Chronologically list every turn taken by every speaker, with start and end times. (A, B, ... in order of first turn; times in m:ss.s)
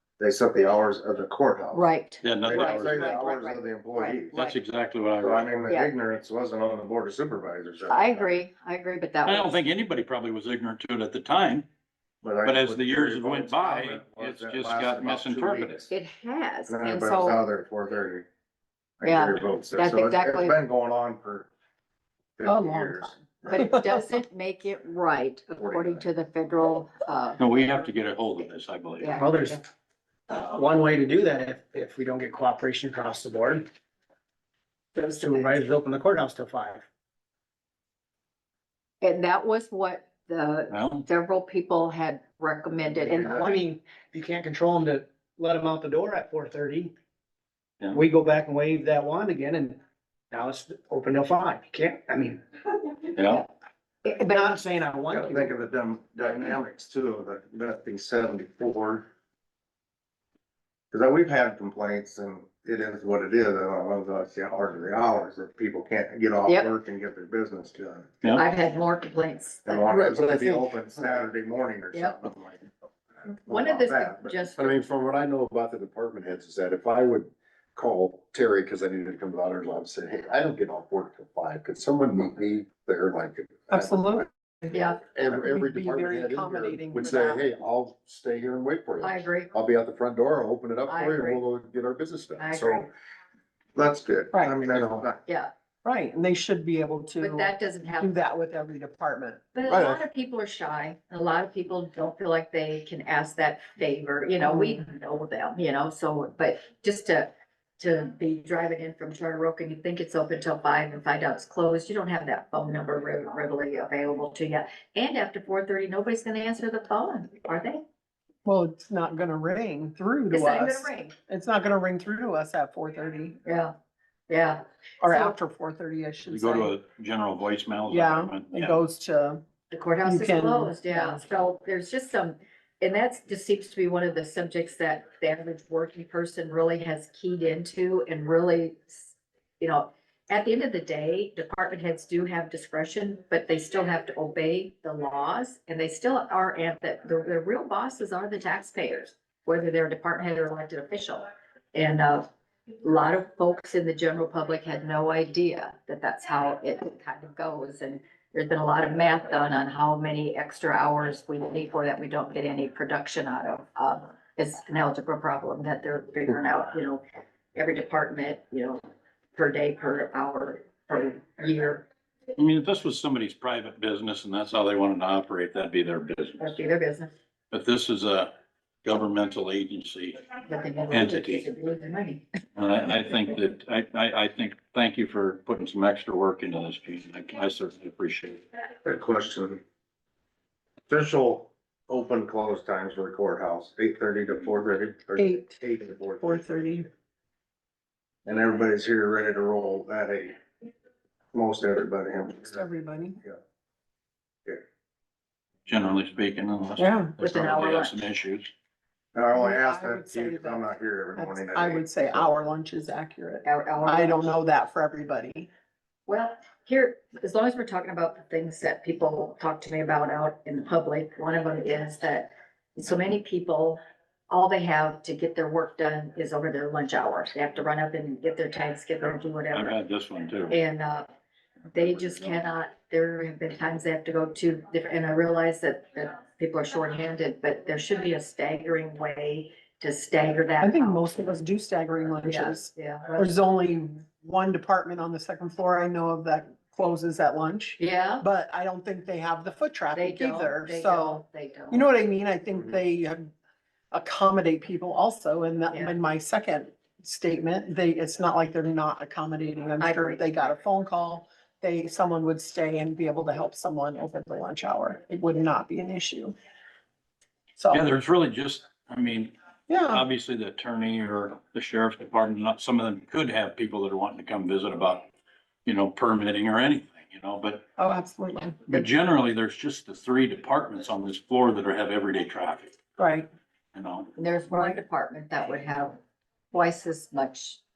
0:00.2-0:01.9 A
0:01.7-0:04.6 B
0:02.2-0:03.2 C
0:02.4-0:04.5 A
0:04.3-0:05.5 C
0:05.2-0:08.3 A
0:07.9-0:09.6 B
0:09.2-0:11.7 C
0:12.2-0:15.9 A
0:12.4-0:15.9 C
0:15.9-0:17.4 B
0:16.7-0:18.3 A
0:19.0-0:21.5 A
0:19.0-0:20.6 B
0:22.4-0:23.7 A
0:22.4-0:24.1 D
0:23.5-0:27.5 B
0:25.6-0:26.0 A
0:27.4-0:29.2 C
0:29.0-0:29.6 B
0:29.2-0:29.6 E
0:30.3-0:33.7 E
0:35.0-0:35.6 B
0:35.0-0:36.8 E
0:39.0-0:43.6 B
0:40.7-0:41.1 C
0:43.0-0:46.9 E
0:47.9-0:49.8 E
0:50.3-0:52.4 E
0:53.2-0:53.4 C
0:54.0-0:54.6 B
0:54.1-0:55.5 E
0:55.1-0:59.1 A
1:00.9-1:08.1 A
1:06.5-1:06.7 B
1:08.3-1:10.8 B
1:09.6-1:12.6 A
1:11.9-1:12.2 B
1:13.4-1:14.8 B
1:13.5-1:15.0 A
1:15.0-1:17.3 F
1:17.8-1:24.2 F
1:20.6-1:21.0 A
1:23.7-1:27.4 D
1:24.7-1:25.0 B
1:25.2-1:32.8 F
1:29.0-1:29.5 B
1:30.9-1:31.4 B
1:32.4-1:32.9 B
1:32.4-1:32.9 A
1:33.8-1:35.2 A
1:35.3-1:35.5 B
1:35.8-1:40.0 D
1:37.2-1:38.2 B
1:39.6-1:57.8 B
1:44.4-1:44.8 D
1:58.4-2:03.4 D
2:00.3-2:01.2 B
2:03.4-2:03.7 B
2:04.3-2:05.4 B
2:05.0-2:06.7 D
2:06.3-2:08.8 C
2:07.9-2:09.4 D
2:09.7-2:32.3 B
2:10.0-2:11.2 D
2:32.8-2:47.0 B
2:47.6-2:48.8 B
2:49.4-2:51.9 B
2:52.4-2:56.6 C
2:56.4-2:57.1 B
2:57.5-3:00.3 C
3:00.4-3:02.3 B
3:00.9-3:01.5 C
3:02.6-3:08.4 C
3:08.8-3:09.6 A
3:10.9-3:16.3 A
3:15.2-3:15.6 D
3:16.2-3:16.9 D
3:18.2-3:20.4 A
3:21.3-3:22.6 A
3:22.3-3:23.2 D
3:25.7-3:28.5 C
3:26.8-3:27.2 D
3:27.2-3:28.0 B
3:29.1-3:31.8 A
3:29.3-3:35.5 D
3:33.4-3:34.4 B
3:36.1-3:49.8 B
3:49.5-3:50.6 C
3:50.5-3:51.1 B
3:51.7-4:01.0 B
4:00.6-4:13.3 D
4:02.2-4:03.3 B
4:07.8-4:08.3 B
4:09.9-4:11.9 B
4:13.9-4:26.3 D
4:15.7-4:16.0 B
4:19.8-4:20.6 B
4:27.6-4:27.9 D
4:27.7-4:29.3 C
4:29.7-4:30.1 D
4:29.9-4:35.1 C
4:35.7-4:37.6 C
4:37.8-4:38.9 D
4:38.7-4:42.8 C
4:43.0-4:43.3 D
4:43.7-4:44.1 C
4:44.2-4:46.0 B
4:46.5-4:47.6 B